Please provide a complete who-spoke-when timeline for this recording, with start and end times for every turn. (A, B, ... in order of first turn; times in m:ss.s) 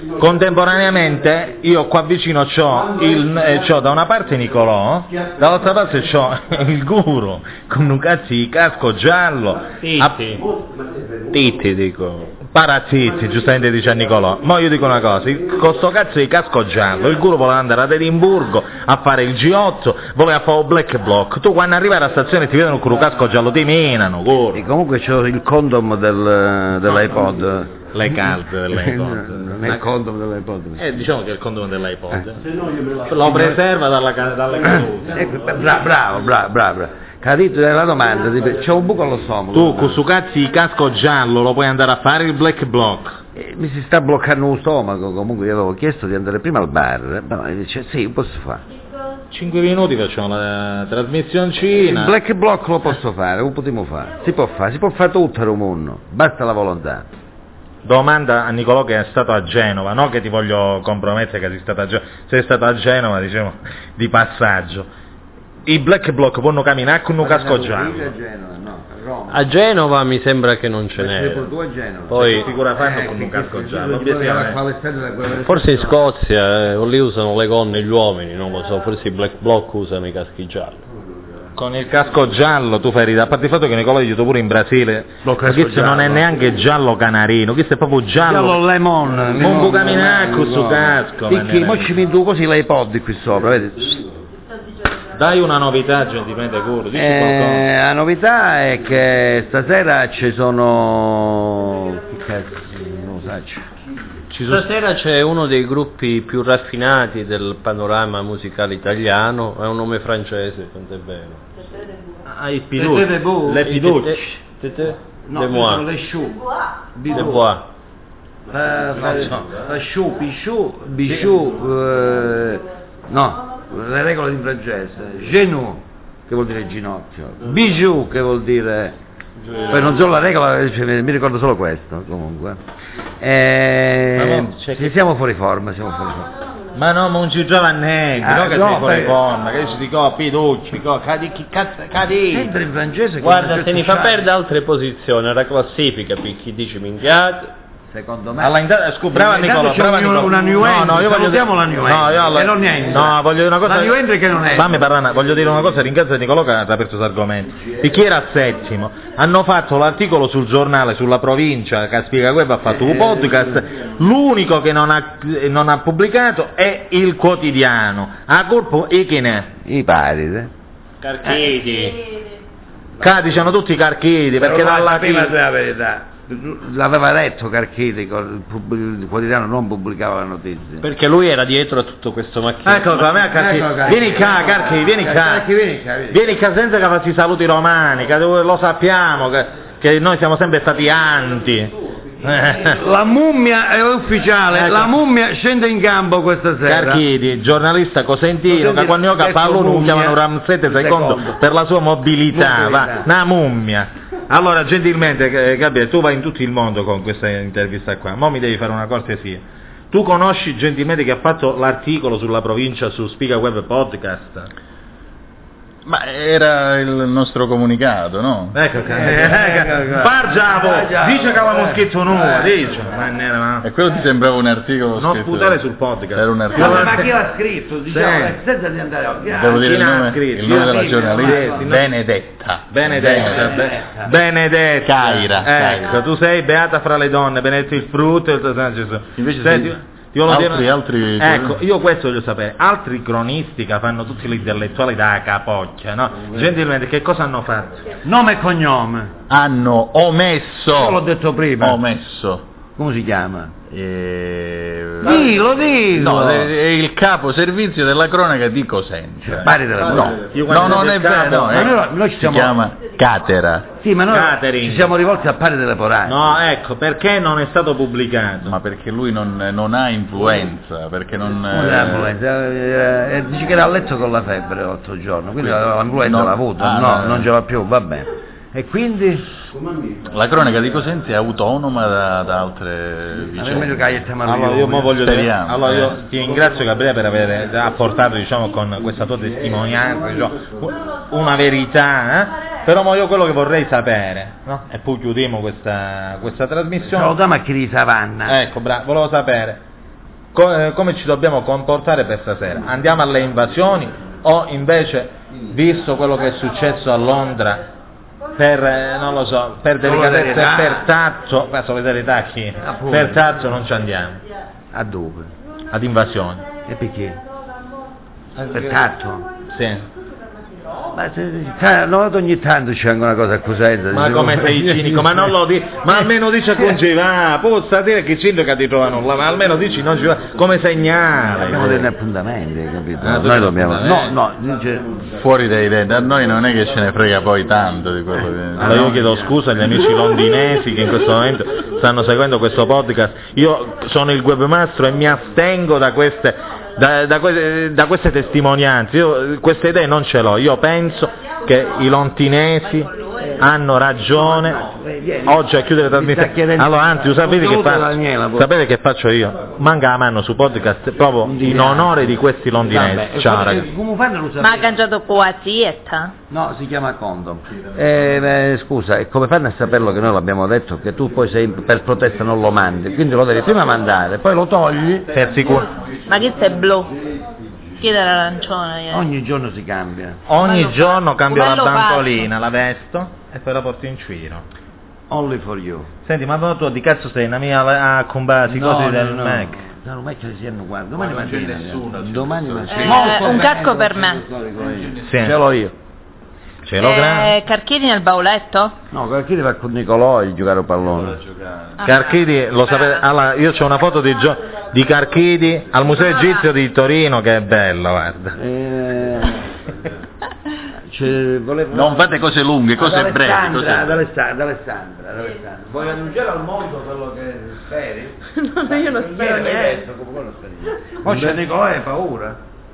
0:00.2-0:10.4 A
0:09.8-0:10.5 B
0:11.3-0:12.3 B
0:12.5-0:24.6 A
0:24.5-0:31.0 C
0:27.9-0:29.8 A
0:30.8-0:32.4 A
0:33.0-0:35.2 A
0:35.1-0:40.0 C
0:39.5-0:43.2 A
0:43.4-0:48.6 C
0:49.3-0:52.2 A
0:51.7-0:57.1 C
0:57.8-1:04.9 A
1:05.7-1:08.1 A
1:07.2-1:09.6 C
1:09.3-1:11.5 B
1:11.0-1:16.0 C
1:12.1-1:12.5 B
1:12.2-1:14.6 A
1:15.4-1:20.8 B
1:21.6-1:28.6 A
1:25.2-1:26.3 C
1:28.2-1:34.0 C
1:29.3-1:32.0 A
1:35.1-1:37.7 A
1:36.9-1:43.6 C
1:44.3-1:44.6 A
1:44.4-1:51.4 B
1:52.3-1:54.2 A
1:52.8-1:53.6 C
1:53.6-1:55.9 B
1:55.3-1:56.4 C
1:57.0-1:57.5 C
1:57.1-1:57.6 B
1:58.5-2:09.0 C
1:59.2-1:59.4 A
2:09.7-2:12.6 C
2:13.2-2:16.3 C
2:14.2-2:15.0 A
2:16.7-2:22.5 A
2:18.2-2:19.2 C
2:22.3-2:24.3 C
2:23.2-2:27.5 B
2:27.9-2:28.6 C
2:28.4-2:34.0 A
2:29.1-2:34.8 C
2:34.5-2:49.5 A
2:49.6-2:50.5 C
2:51.0-2:52.0 B
2:53.0-2:55.3 A
2:54.4-3:00.9 C
3:00.8-3:03.1 B
3:02.6-3:05.5 A
3:03.3-3:06.2 C
3:06.1-3:12.8 A
3:12.7-3:17.0 C
3:14.5-3:15.0 A
3:16.6-3:34.5 A
3:18.5-3:21.4 C
3:22.3-3:23.1 C
3:35.8-3:38.6 D
3:38.5-3:43.7 A
3:38.8-3:42.8 C
3:43.6-3:45.6 D
3:45.0-3:47.1 A
3:46.1-3:47.0 D
3:46.5-3:49.6 C
3:47.9-3:48.4 A
3:49.3-3:53.3 D
3:49.5-3:51.9 A
3:50.7-3:51.7 C
3:52.7-4:07.8 A
3:52.9-3:54.2 C
3:54.8-3:56.0 D
3:59.2-3:59.8 D
4:00.3-4:01.6 D
4:08.0-4:09.1 C
4:09.3-4:11.0 D
4:10.7-4:11.8 C
4:11.6-4:12.4 D
4:12.8-4:13.5 C
4:13.7-4:23.7 D
4:15.0-4:16.5 C
4:19.2-4:20.8 C
4:20.0-4:21.7 A
4:21.4-4:22.6 C
4:23.7-4:26.4 C
4:24.1-4:24.9 A
4:26.0-4:28.6 A
4:28.4-4:32.1 D
4:31.5-4:39.3 C
4:36.0-4:37.3 D
4:40.1-4:44.0 D
4:43.4-4:45.0 C
4:44.2-4:57.2 A
4:45.0-4:46.0 D
4:56.8-4:58.4 C
4:58.3-4:59.6 A
5:00.3-5:07.6 A
5:08.4-5:14.2 A
5:09.8-5:10.8 C
5:12.7-5:13.3 C
5:14.7-5:15.3 C
5:15.7-5:16.4 A
5:16.6-5:17.2 C
5:18.4-5:19.3 C
5:19.5-5:19.9 A
5:20.9-5:25.3 C
5:23.9-5:31.9 A
5:31.4-5:35.0 C
5:33.0-5:34.2 A
5:35.1-5:38.9 D
5:38.6-5:39.4 C
5:38.6-5:54.6 A
5:52.8-5:53.4 E
5:53.2-5:53.5 C
5:54.0-5:58.5 C
5:55.2-6:03.7 A
6:01.2-6:02.1 C
6:02.7-6:04.8 C
6:04.4-6:06.1 E
6:06.3-6:15.1 C
6:15.1-6:15.7 A
6:16.1-6:16.9 E
6:17.8-6:19.1 E
6:18.9-6:20.2 C
6:20.3-6:24.4 A
6:20.4-6:22.3 E
6:25.1-6:25.9 C
6:26.0-6:29.6 A
6:28.5-6:35.7 C
6:30.9-6:33.4 D
6:32.8-6:34.2 E
6:34.7-6:35.0 D
6:35.0-6:35.4 A
6:36.6-6:37.4 A
6:36.8-6:38.7 E
6:38.9-6:41.2 C
6:41.0-6:41.8 D
6:41.8-6:43.1 E
6:41.8-6:48.4 A
6:45.9-6:46.4 E
6:48.4-6:49.5 C
6:50.9-6:52.2 C
6:51.7-6:54.0 D
6:52.8-7:02.4 C
6:58.4-6:59.8 E